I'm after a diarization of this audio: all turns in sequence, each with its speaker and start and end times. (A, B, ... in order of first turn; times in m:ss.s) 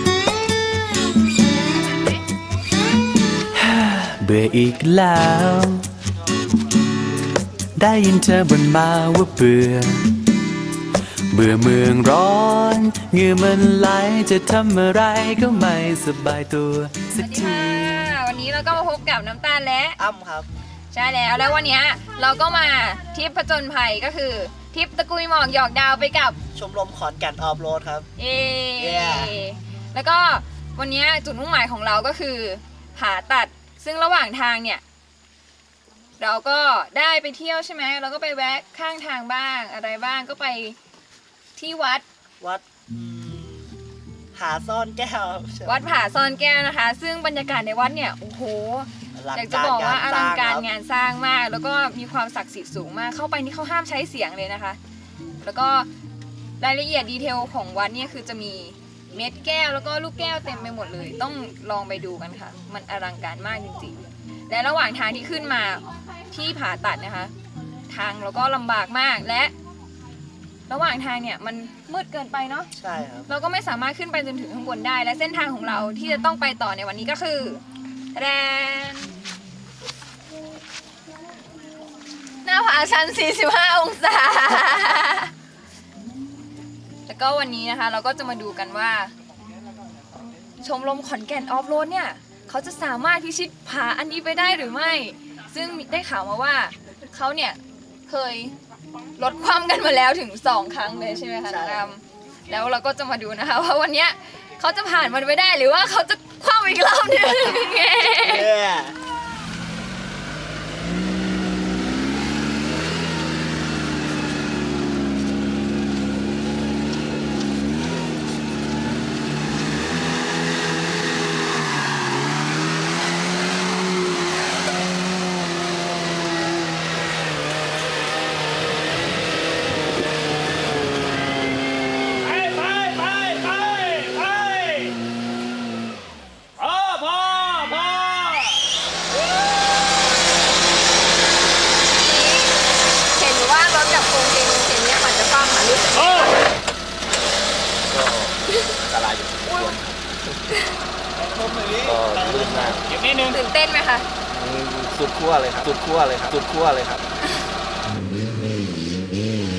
0:03.5-0:05.9 A
0:07.8-0:10.2 A
0:11.3-0:18.0 A
0:17.2-0:20.0 B
0:20.0-0:20.5 C
0:20.9-0:26.4 B
0:26.5-0:28.1 C
0:28.2-0:34.8 B
0:28.8-0:29.4 C
0:36.2-0:40.8 B
0:41.6-0:42.0 B
0:42.4-0:43.7 C
0:44.3-0:45.8 C
0:45.7-0:54.8 B
0:49.2-0:50.7 C
0:55.4-0:55.9 B
0:56.6-1:07.3 B
1:07.9-1:09.5 B
1:10.7-1:12.7 B
1:12.8-1:13.3 C
1:13.3-1:19.1 B
1:22.4-1:25.3 B
1:27.1-1:29.1 B
1:30.6-1:38.5 B
1:39.2-1:48.5 B
1:41.5-1:41.9 C
1:48.2-1:49.0 C
2:12.4-2:14.9 D
2:16.6-2:18.4 D
2:22.0-2:22.6 B
2:23.1-2:26.4 B
2:27.9-2:29.8 E
2:31.4-2:33.0 E
2:33.2-2:34.1 B
2:34.3-2:37.0 E